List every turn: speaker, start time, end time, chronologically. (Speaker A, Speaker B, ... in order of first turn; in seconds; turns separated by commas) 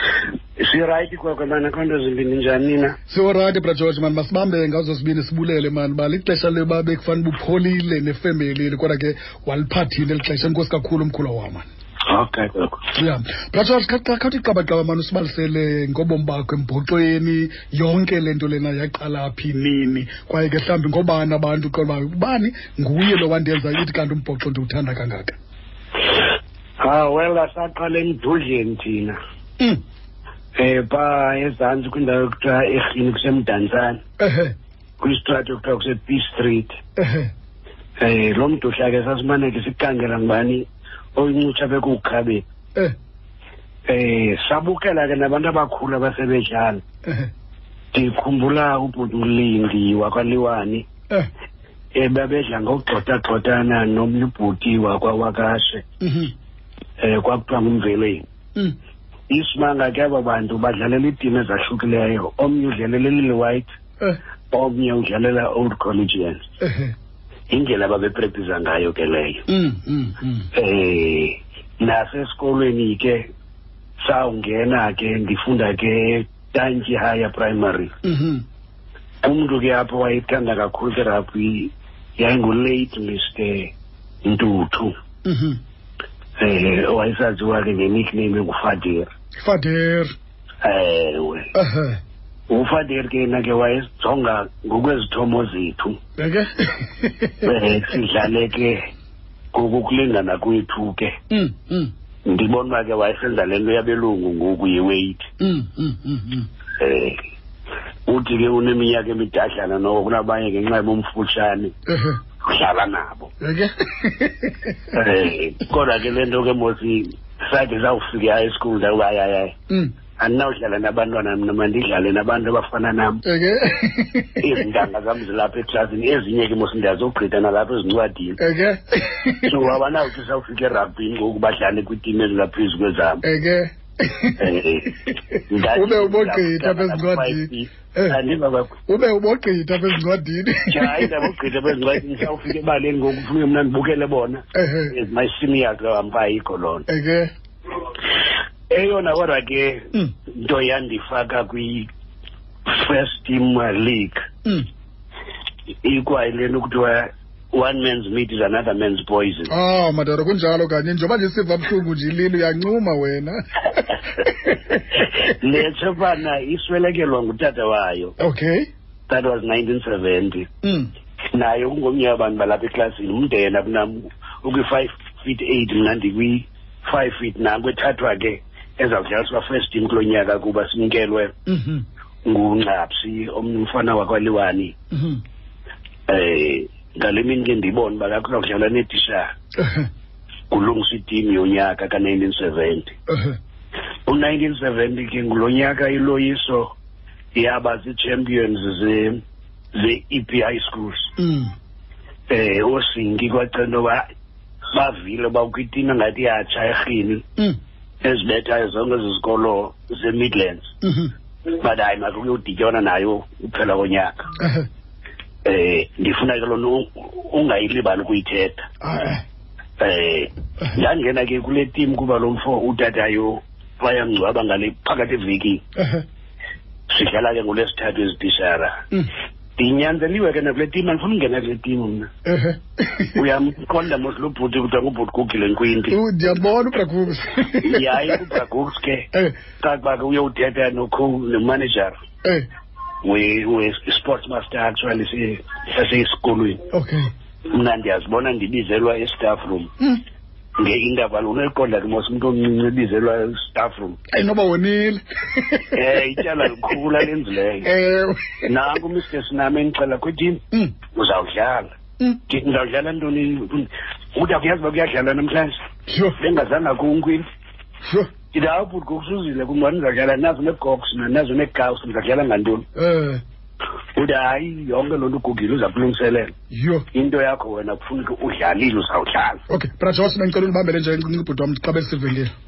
Speaker A: 0.6-3.0, Speaker B: 3.1-11.7, Speaker A: 12.1-12.8, Speaker B: 12.9-25.4, Speaker A: 26.8-29.2, Speaker A: 30.6-34.0, Speaker B: 34.2-34.5, Speaker A: 35.0-36.8, Speaker B: 37.0-37.3, Speaker A: 38.0-42.4, Speaker A: 43.9-46.8, Speaker A: 47.9-50.9, Speaker A: 52.0-55.8, Speaker B: 56.0-56.3, Speaker A: 57.0-58.2, Speaker A: 59.3-63.7, Speaker A: 64.5-66.4, Speaker B: 66.6-66.9, Speaker A: 67.5-69.4, Speaker B: 69.5-70.5, Speaker A: 70.5-73.2, Speaker A: 74.0-77.9, Speaker B: 78.0-78.4, Speaker A: 79.2-83.7, Speaker A: 84.2-84.9, Speaker B: 85.2-85.6, Speaker A: 86.4-89.1, Speaker B: 89.4-90.1, Speaker A: 90.6-91.5, Speaker B: 91.5-92.0, Speaker A: 92.5-96.0, Speaker B: 96.2-97.5, Speaker A: 97.4-98.8, Speaker A: 99.5-101.1, Speaker B: 101.3-101.9, Speaker A: 102.3-105.3, Speaker B: 105.4-106.5, Speaker A: 106.8-107.2, Speaker A: 108.1-111.7, Speaker B: 111.9-112.2, Speaker A: 112.5-113.3, Speaker B: 113.4-114.8, Speaker A: 114.9-119.5, Speaker A: 120.2-123.2, Speaker B: 123.2-124.5, Speaker A: 124.4-128.4, Speaker B: 128.4-129.6, Speaker A: 129.4-133.2, Speaker B: 133.2-134.5, Speaker A: 134.4-138.7, Speaker B: 135.7-138.2, Speaker B: 138.9-141.8, Speaker A: 140.7-146.9, Speaker B: 144.6-144.9, Speaker B: 146.9-147.3, Speaker A: 148.7-151.9, Speaker A: 152.7-154.2, Speaker A: 155.8-159.5, Speaker B: 159.5-164.7, Speaker A: 164.9-168.1, Speaker B: 168.2-168.7, Speaker A: 169.1-170.5, Speaker B: 170.6-170.9, Speaker A: 171.3-181.3, Speaker B: 181.5-181.8, Speaker A: 182.3-184.8, Speaker B: 184.9-185.2, Speaker A: 186.1-189.3, Speaker B: 189.6-189.9, Speaker A: 190.5-192.9, Speaker B: 193.1-193.4, Speaker A: 194.1-196.8, Speaker A: 197.3-199.2, Speaker A: 199.8-201.1, Speaker B: 201.2-201.5, Speaker A: 202.3-204.0, Speaker A: 204.7-207.2, Speaker A: 208.0-210.7, Speaker B: 210.8-211.1, Speaker A: 211.5-214.2, Speaker B: 214.4-214.7, Speaker A: 215.4-218.6, Speaker B: 218.8-219.2, Speaker A: 219.8-225.6, Speaker B: 225.8-226.0, Speaker A: 226.9-228.8, Speaker A: 229.6-232.1, Speaker B: 232.3-233.2, Speaker A: 233.2-236.0, Speaker B: 235.9-238.2, Speaker A: 237.6-239.1, Speaker A: 239.6-241.9, Speaker A: 243.0-246.6, Speaker B: 246.7-247.1, Speaker A: 247.5-249.7, Speaker A: 250.6-254.0, Speaker B: 254.1-255.8, Speaker A: 255.7-257.7, Speaker B: 257.6-258.5, Speaker A: 258.5-260.4, Speaker A: 260.9-261.7, Speaker A: 262.3-265.5, Speaker B: 265.9-266.2, Speaker A: 266.2-267.2, Speaker B: 267.8-268.1, Speaker A: 268.3-272.7, Speaker B: 272.8-273.2, Speaker A: 274.0-276.3, Speaker B: 276.5-276.9, Speaker A: 276.9-279.4, Speaker B: 279.5-282.3